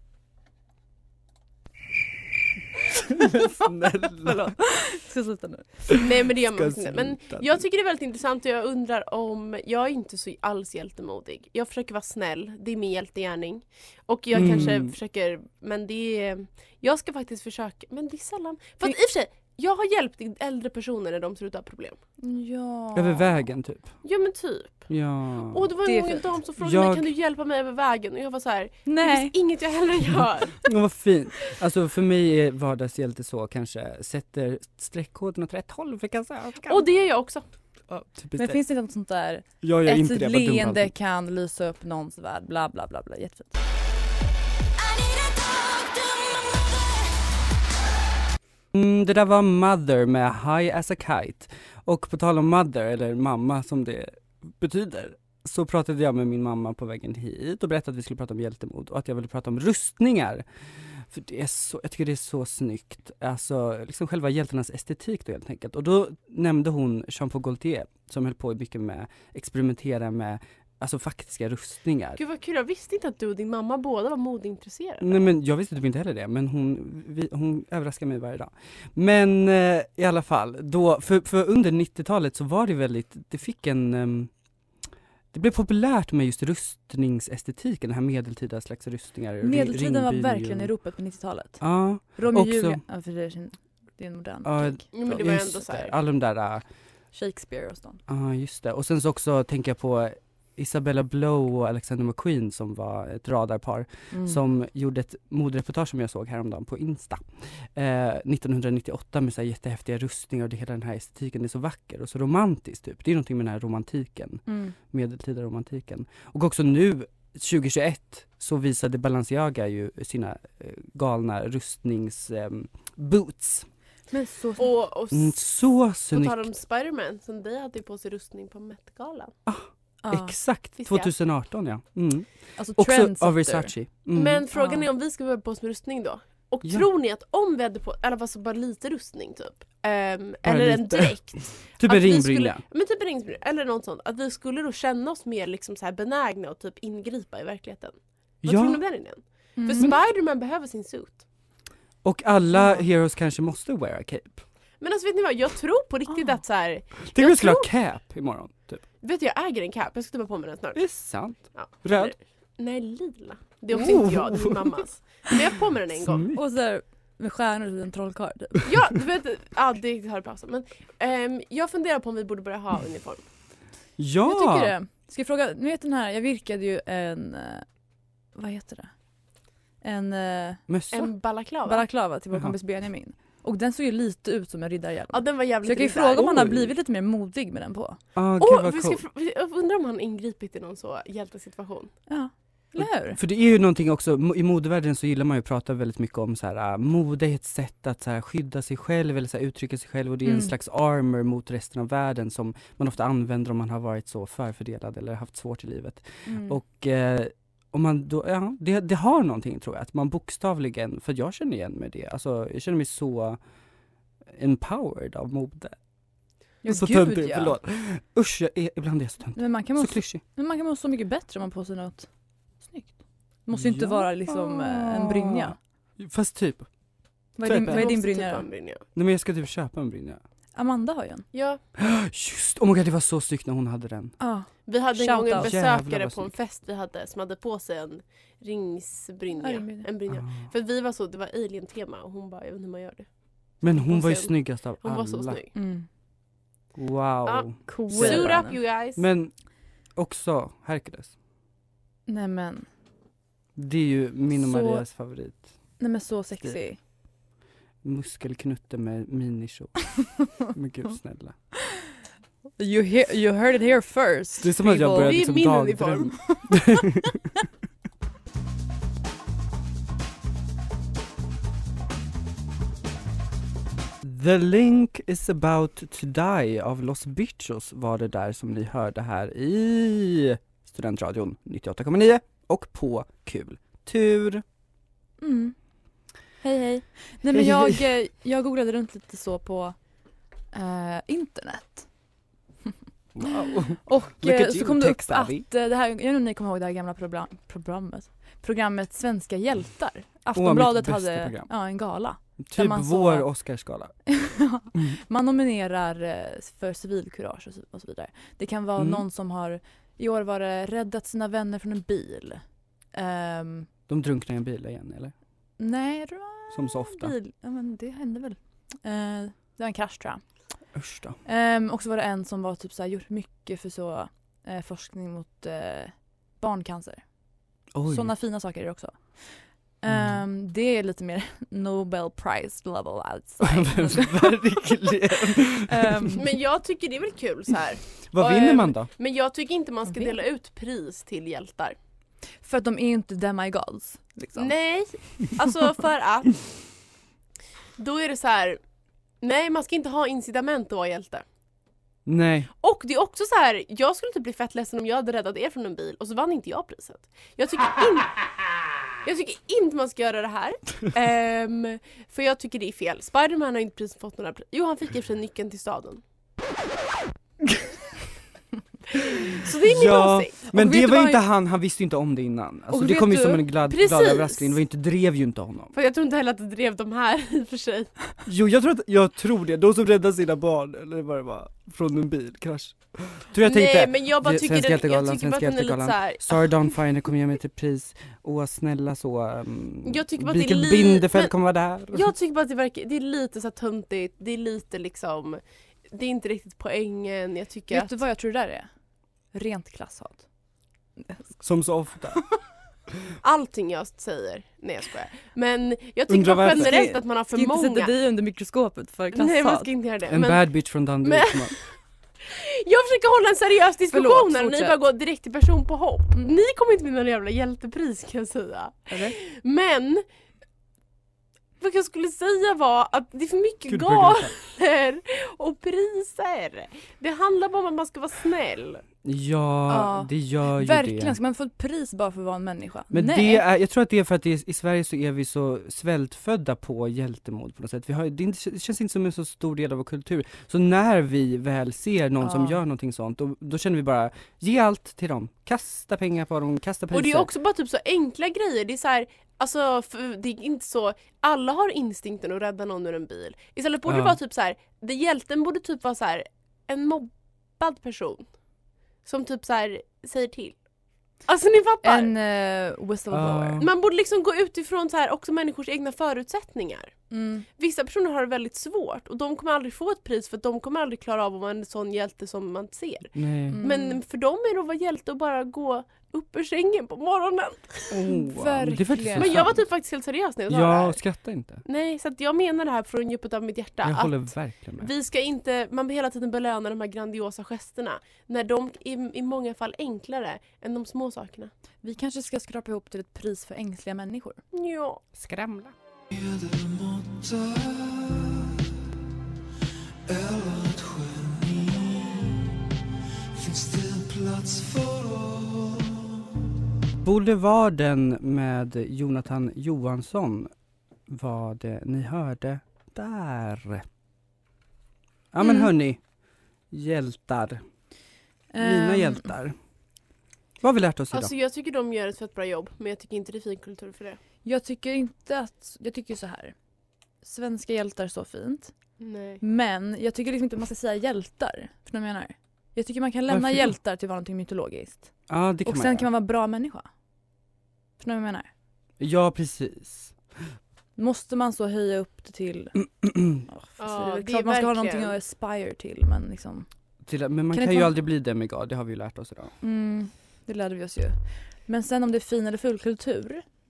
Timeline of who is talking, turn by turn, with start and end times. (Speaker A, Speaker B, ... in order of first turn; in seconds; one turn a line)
Speaker A: 3.3-4.6
Speaker B: 4.2-6.0
Speaker C: 6.0-22.0
Speaker A: 6.3-7.7
Speaker A: 14.3-14.9
Speaker B: 22.2-23.4
Speaker A: 22.9-23.9
Speaker C: 24.0-24.9
Speaker A: 24.9-25.7
Speaker C: 25.5-30.6
Speaker B: 25.9-26.2
Speaker A: 26.6-27.1
Speaker B: 28.9-29.3
Speaker A: 30.6-36.9
Speaker C: 36.7-37.4
Speaker A: 37.9-38.6
Speaker B: 38.4-43.6
Speaker A: 39.6-40.9
Speaker A: 48.7-72.2
Speaker C: 72.2-75.2
Speaker A: 75.0-84.3
Speaker A: 85.3-90.7
Speaker B: 89.4-95.0
Speaker A: 91.6-92.8
Speaker A: 94.4-96.6
Speaker C: 94.9-95.9
Speaker B: 97.1-98.0
Speaker A: 98.1-123.7
Speaker B: 104.1-104.4
Speaker B: 114.5-114.8
Speaker B: 124.1-124.7
Speaker C: 124.6-125.4
Speaker A: 125.1-126.5
Speaker C: 126.1-129.3
Speaker A: 129.5-134.4
Speaker B: 130.0-130.3
Speaker C: 130.8-131.1
Speaker B: 132.6-133.7
Speaker C: 134.2-151.2
Speaker B: 134.5-134.9
Speaker A: 140.4-142.6
Speaker A: 148.4-148.8
Speaker B: 149.6-149.9
Speaker A: 152.0-154.4
Speaker B: 152.5-152.8
Speaker C: 154.8-157.7
Speaker A: 157.1-158.8
Speaker C: 159.0-166.3
Speaker A: 160.8-162.1
Speaker A: 163.7-164.7
Speaker A: 166.0-166.4
Speaker B: 166.3-168.7
Speaker C: 168.7-173.2
Speaker A: 174.0-174.8
Speaker B: 174.2-177.7
Speaker B: 178.3-178.9
Speaker B: 179.8-180.6
Speaker A: 180.7-181.1
Speaker C: 180.9-181.9
Speaker B: 181.7-188.0
Speaker C: 185.1-186.6
Speaker A: 186.2-186.6
Speaker A: 188.2-189.0
Speaker C: 188.4-191.9
Speaker B: 192.1-193.2
Speaker A: 192.8-213.4
Speaker B: 200.2-200.5
Speaker B: 206.3-206.6
Speaker A: 214.3-215.8
Speaker B: 216.6-217.6
Speaker A: 216.7-220.2
Speaker B: 219.4-225.6
Speaker A: 223.5-226.7
Speaker B: 227.4-228.4
Speaker A: 227.4-227.9
Speaker C: 227.6-228.8
Speaker A: 228.9-230.2
Speaker B: 230.6-231.3
Speaker C: 231.3-231.6
Speaker A: 231.8-234.2
Speaker B: 234.2-235.5
Speaker C: 234.7-243.1
Speaker A: 235.3-236.3
Speaker B: 239.4-239.9
Speaker A: 240.1-240.5
Speaker A: 243.6-245.4
Speaker C: 243.6-245.5
Speaker B: 245.6-245.9
Speaker A: 246.8-249.3
Speaker C: 247.2-249.0
Speaker B: 247.7-248.6
Speaker A: 249.9-251.1
Speaker B: 252.1-252.7
Speaker A: 253.6-255.5
Speaker B: 254.3-254.8
Speaker B: 255.8-256.8
Speaker A: 257.8-261.4
Speaker B: 262.6-265.3
Speaker A: 264.4-267.2
Speaker C: 264.8-266.5
Speaker B: 266.2-266.8
Speaker A: 274.0-284.4
Speaker B: 285.2-285.6
Speaker B: 286.4-289.8
Speaker A: 287.3-287.8
Speaker B: 290.5-291.9
Speaker A: 293.1-295.5
Speaker B: 293.2-303.3
Speaker A: 300.3-301.5
Speaker A: 302.4-304.0
Speaker B: 304.1-313.7
Speaker A: 308.8-309.0
Speaker A: 313.9-315.1
Speaker B: 315.6-320.2
Speaker A: 316.5-317.1
Speaker A: 320.7-321.2
Speaker B: 321.2-327.1
Speaker A: 327.7-328.1
Speaker B: 327.9-336.2
Speaker A: 329.9-330.2
Speaker A: 333.4-336.2
Speaker C: 336.2-341.8
Speaker A: 338.1-338.9
Speaker B: 339.9-340.2
Speaker B: 342.4-344.5
Speaker C: 344.4-346.5
Speaker C: 347.8-348.6
Speaker C: 349.2-351.2
Speaker A: 352.1-352.5
Speaker C: 352.6-358.2
Speaker C: 359.0-366.0
Speaker C: 368.9-370.4
Speaker A: 369.6-375.7
Speaker B: 370.5-371.2
Speaker B: 372.7-373.4
Speaker C: 373.6-374.6
Speaker C: 375.7-378.0
Speaker A: 378.3-392.1
Speaker C: 383.4-386.8
Speaker C: 389.9-391.4
Speaker C: 391.9-398.0
Speaker B: 397.7-398.7
Speaker B: 399.3-400.3
Speaker B: 401.0-401.4
Speaker A: 401.4-402.2
Speaker C: 403.2-407.9
Speaker A: 406.1-406.8
Speaker B: 406.5-409.7
Speaker C: 409.1-420.0
Speaker A: 410.1-411.6
Speaker B: 413.9-414.8
Speaker B: 418.9-419.2
Speaker C: 421.6-428.8
Speaker A: 423.7-424.4
Speaker A: 429.0-431.2
Speaker B: 429.7-433.4
Speaker A: 432.9-447.3
Speaker B: 442.2-442.6
Speaker C: 446.9-458.3
Speaker A: 453.9-454.2
Speaker C: 459.1-460.6
Speaker C: 461.3-462.1
Speaker B: 461.8-463.6
Speaker A: 463.1-463.7
Speaker C: 463.6-467.0
Speaker B: 467.1-467.5
Speaker C: 467.6-478.0
Speaker A: 473.1-473.6
Speaker B: 473.5-474.0
Speaker A: 477.9-479.6
Speaker B: 478.1-479.4
Speaker C: 479.2-481.1
Speaker A: 480.5-481.6
Speaker C: 481.6-491.5
Speaker A: 483.8-484.9
Speaker B: 491.8-494.4
Speaker C: 494.5-495.0
Speaker A: 495.1-495.8
Speaker A: 496.8-498.3
Speaker A: 500.1-502.4
Speaker A: 503.4-506.0
Speaker A: 507.0-510.5
Speaker A: 511.1-513.9
Speaker A: 515.3-516.0
Speaker B: 515.4-515.7
Speaker A: 516.7-517.6
Speaker B: 518.5-519.3
Speaker A: 518.6-519.6
Speaker A: 520.6-521.3
Speaker C: 521.1-524.2
Speaker B: 524.4-526.5
Speaker B: 527.2-528.7
Speaker C: 529.0-529.4
Speaker B: 529.4-535.1
Speaker A: 533.3-533.8
Speaker A: 535.3-536.1
Speaker B: 535.6-536.9
Speaker B: 538.0-538.5
Speaker A: 539.0-540.1
Speaker B: 541.0-542.9
Speaker A: 543.0-543.4
Speaker B: 543.5-546.7
Speaker C: 543.8-545.2
Speaker A: 547.1-549.5
Speaker B: 547.5-547.9
Speaker B: 549.6-553.5